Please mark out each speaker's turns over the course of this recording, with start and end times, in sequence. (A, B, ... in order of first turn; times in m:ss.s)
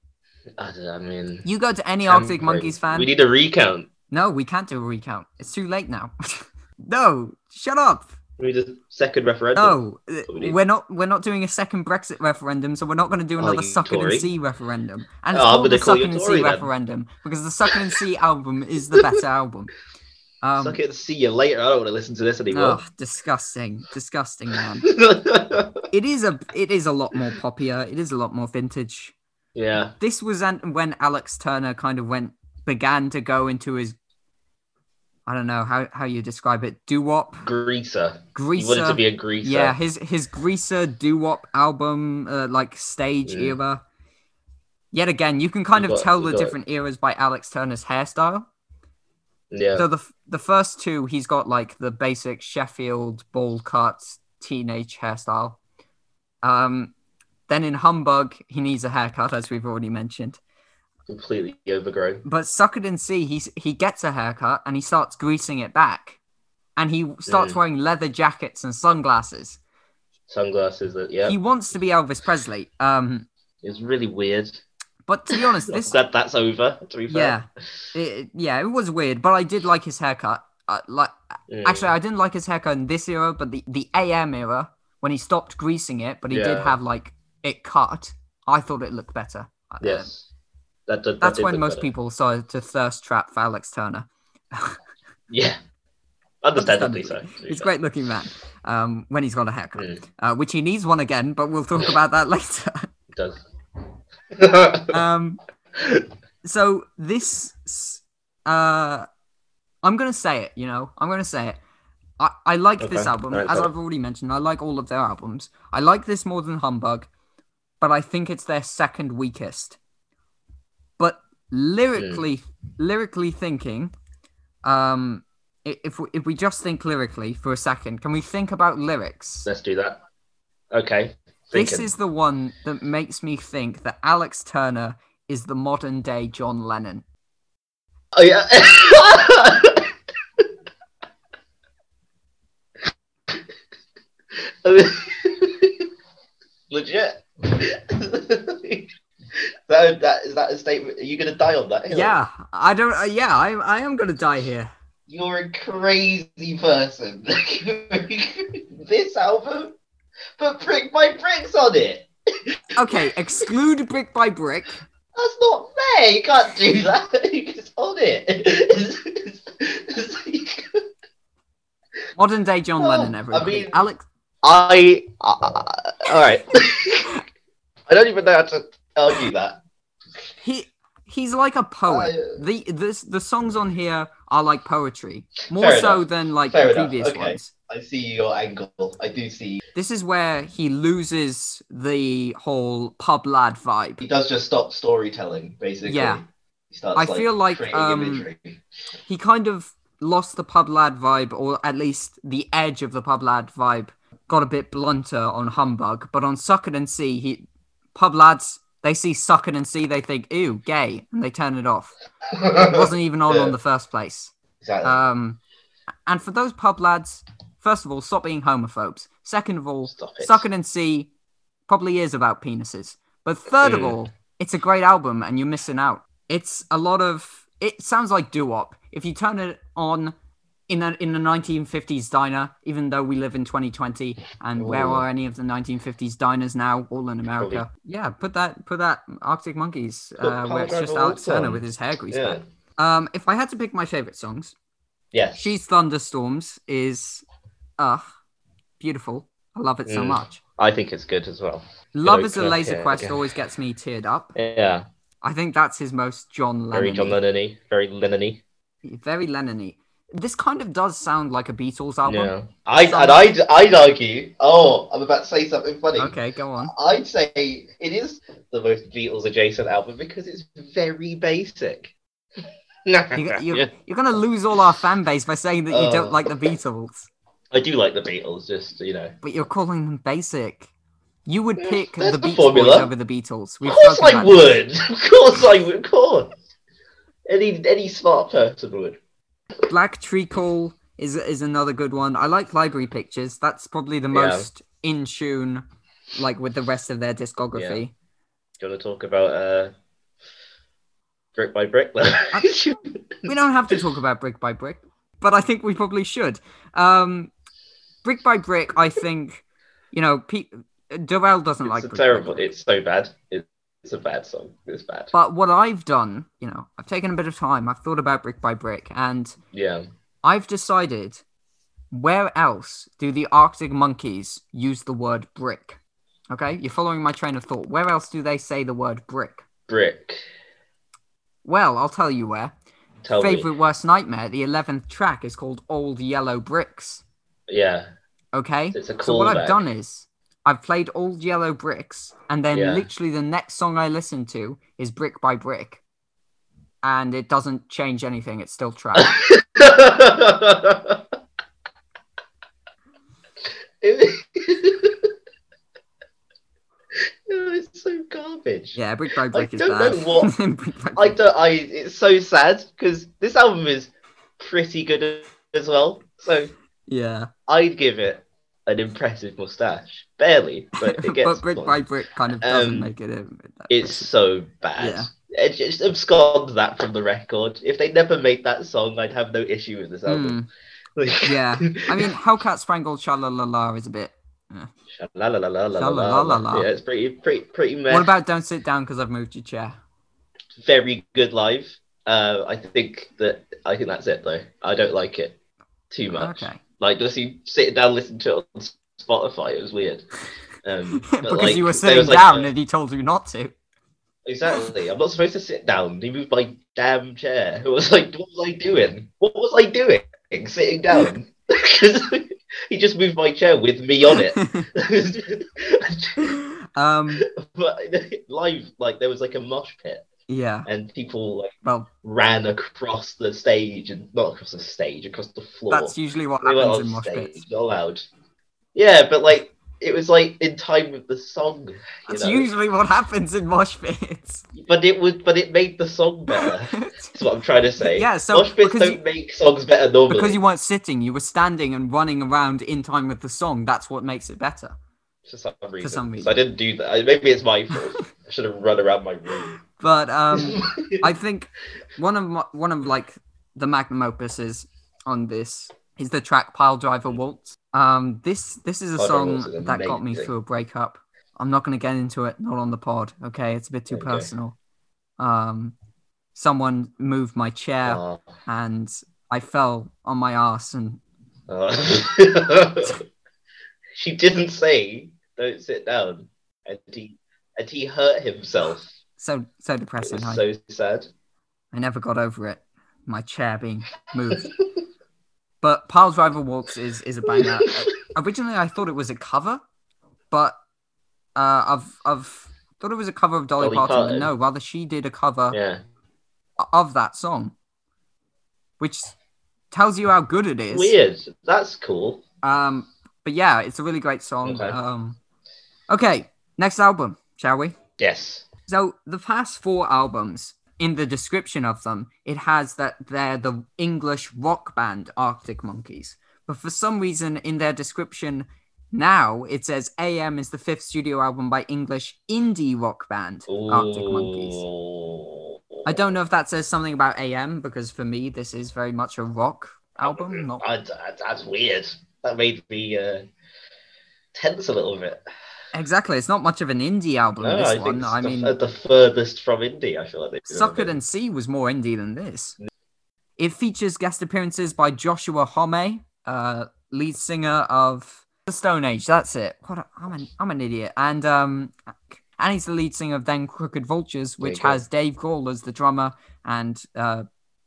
0:00.6-0:01.5 A
0:01.4-0:03.1 B
0:02.0-0:03.9 A
0:04.1-0:08.1 B
0:08.4-0:09.8 A
0:09.6-0:19.7 B
0:10.3-0:10.6 A
0:13.4-0:14.3 A
0:15.3-0:16.7 A
0:20.4-0:20.8 B
0:20.6-0:22.8 A
0:22.5-0:24.9 B
0:24.8-0:25.8 A
0:25.9-0:29.1 B
0:29.5-0:29.9 A
0:30.0-0:34.0 B
0:35.2-0:37.4 B
0:37.4-0:39.7 A
0:38.3-0:43.8 B
0:43.3-0:43.6 A
0:44.9-0:48.5 B
0:45.7-0:46.6 A
0:49.5-0:49.8 A
0:49.8-0:55.6 B
0:56.4-0:56.9 B
0:57.5-1:00.4 B
1:01.1-1:02.2 A
1:02.2-1:06.2 B
1:06.8-1:09.6 B
1:07.3-1:07.6 A
1:10.3-1:11.4 A
1:11.2-1:13.3 B
1:13.6-1:14.6 A
1:15.1-1:16.0 B
1:15.3-1:17.4 A
1:17.1-1:30.1 B
1:21.5-1:21.9 A
1:26.3-1:26.8 A
1:29.8-1:30.3 A
1:30.9-1:31.9 A
1:31.2-1:34.8 B
1:35.3-1:35.6 A
1:36.4-1:37.7 A
1:36.6-1:42.9 B
1:39.8-1:40.0 A
1:43.1-1:43.4 A
1:44.3-1:45.0 A
1:44.9-1:45.4 B
1:45.8-1:46.1 A
1:46.4-1:49.0 B
1:49.8-1:51.6 B
1:52.2-1:57.1 B
1:52.8-1:53.7 A
1:57.8-1:59.8 B
2:01.0-2:03.9 B
2:02.0-2:02.2 A
2:04.6-2:09.5 B
2:09.4-2:10.0 A
2:10.7-2:11.9 A
2:11.5-2:17.0 B
2:18.1-2:20.4 A
2:24.6-2:25.9 A
2:26.7-2:32.2 A
2:31.9-2:34.7 B
2:35.1-2:39.7 A
2:40.4-2:43.1 A
2:42.8-2:44.8 B
2:45.1-2:50.8 A
2:52.2-2:54.0 B
2:52.8-2:53.8 A
2:54.4-2:57.2 A
2:57.9-2:59.6 A
3:00.4-3:07.5 B
3:01.9-3:02.4 A
3:05.5-3:09.6 A
3:09.7-3:14.0 B
3:14.0-3:18.6 A
3:15.8-3:16.2 B
3:16.9-3:18.3 B
3:19.1-3:31.9 B
3:32.3-3:33.5 A
3:32.5-3:35.4 B
3:34.6-3:35.0 A
3:36.1-3:41.1 B
3:39.9-3:40.4 A
3:41.7-3:50.1 B
3:43.6-3:44.0 A
3:50.7-4:04.5 B
3:54.6-3:55.0 A
3:57.4-3:57.6 A
4:00.2-4:02.4 A
4:05.1-4:05.4 A
4:05.4-4:07.2 B
4:07.8-4:08.0 B
4:08.8-4:10.4 B
4:09.8-4:13.2 A
4:11.9-4:14.3 B
4:14.3-4:14.8 A
4:15.2-4:17.2 B
4:16.7-4:18.4 A
4:18.8-4:23.3 B
4:22.0-4:31.9 A
4:26.0-4:26.7 B
4:32.8-4:33.7 A
4:33.1-4:37.1 B
4:35.7-4:36.2 A
4:37.5-4:39.1 A
4:39.2-4:40.7 B
4:41.2-4:44.6 B
4:41.6-4:42.9 A
4:43.6-4:46.3 A
4:47.3-4:49.0 A
4:49.7-4:57.9 B
4:54.1-4:54.5 A
4:57.5-4:57.8 A
4:58.6-4:59.7 A
5:01.4-5:03.0 A
5:03.2-5:07.3 B
5:08.0-5:12.5 B
5:11.6-5:15.1 A
5:15.1-5:19.4 B
5:19.5-5:19.8 A
5:20.2-5:21.2 B
5:21.9-5:25.8 B
5:26.3-5:29.4 B
5:29.7-5:30.2 A
5:31.4-5:32.5 B
5:33.0-5:33.5 A
5:33.1-5:37.0 B
5:37.5-5:37.9 A
5:38.3-5:45.8 B
5:38.7-5:39.6 A
5:42.5-5:42.8 A
5:46.8-5:49.1 B
5:49.0-5:51.0 A
5:53.8-5:55.1 A
5:57.3-5:58.8 A
5:58.7-6:01.2 B
5:59.3-6:00.3 A
6:01.0-6:06.5 A
6:06.9-6:07.3 B
6:07.5-6:11.8 A
6:10.8-6:14.1 B
6:12.4-6:12.9 A
6:13.7-6:20.4 A
6:14.8-6:15.1 B
6:20.1-6:20.5 B
6:21.0-6:22.1 A
6:21.2-6:24.7 B
6:24.9-6:28.1 A
6:25.8-6:26.7 B
6:27.9-6:29.8 B
6:30.6-6:35.4 A
6:35.9-6:40.1 A
6:36.1-6:36.6 B
6:40.6-6:42.5 A
6:41.0-6:43.5 B
6:44.2-6:56.4 A
6:54.1-6:54.7 B
6:56.2-6:57.2 B
6:57.2-7:00.0 A
7:00.3-7:00.7 B
7:00.6-7:08.0 A
7:01.6-7:01.9 B
7:05.7-7:07.4 B
7:08.7-7:12.5 A
7:12.1-7:14.4 B
7:14.5-7:20.4 A
7:16.3-7:17.2 B
7:17.8-7:19.0 B
7:20.1-7:24.7 B
7:25.2-7:29.6 A
7:25.8-7:26.3 B
7:29.7-7:44.6 B
7:30.3-7:31.0 A
7:39.0-7:40.3 A
7:43.9-7:44.3 A
7:45.2-7:45.7 B
7:46.3-7:51.0 B
7:47.8-7:48.2 A
7:51.5-7:53.0 A
7:53.9-7:58.9 A
7:59.2-8:00.4 B
8:00.0-8:01.1 A
8:01.7-8:04.5 B
8:05.6-8:09.6 B
8:07.3-8:07.7 A
8:10.3-8:10.6 B
8:11.4-8:15.6 B
8:13.6-8:14.3 A
8:15.5-8:15.8 A
8:16.6-8:17.5 B
8:18.8-8:19.1 B
8:19.7-8:20.9 B
8:20.7-8:22.2 A
8:22.4-8:25.2 B
8:24.4-8:24.8 A
8:25.9-8:27.8 B
8:28.0-8:28.4 A
8:28.7-8:44.6 B
8:43.5-8:46.0 A
8:45.8-8:50.6 B
8:50.0-8:53.2 A
8:54.3-8:55.2 A
8:55.7-8:58.5 B
8:57.4-9:00.9 A
9:00.5-9:02.6 B
9:03.4-9:17.2 B
9:14.4-9:14.8 A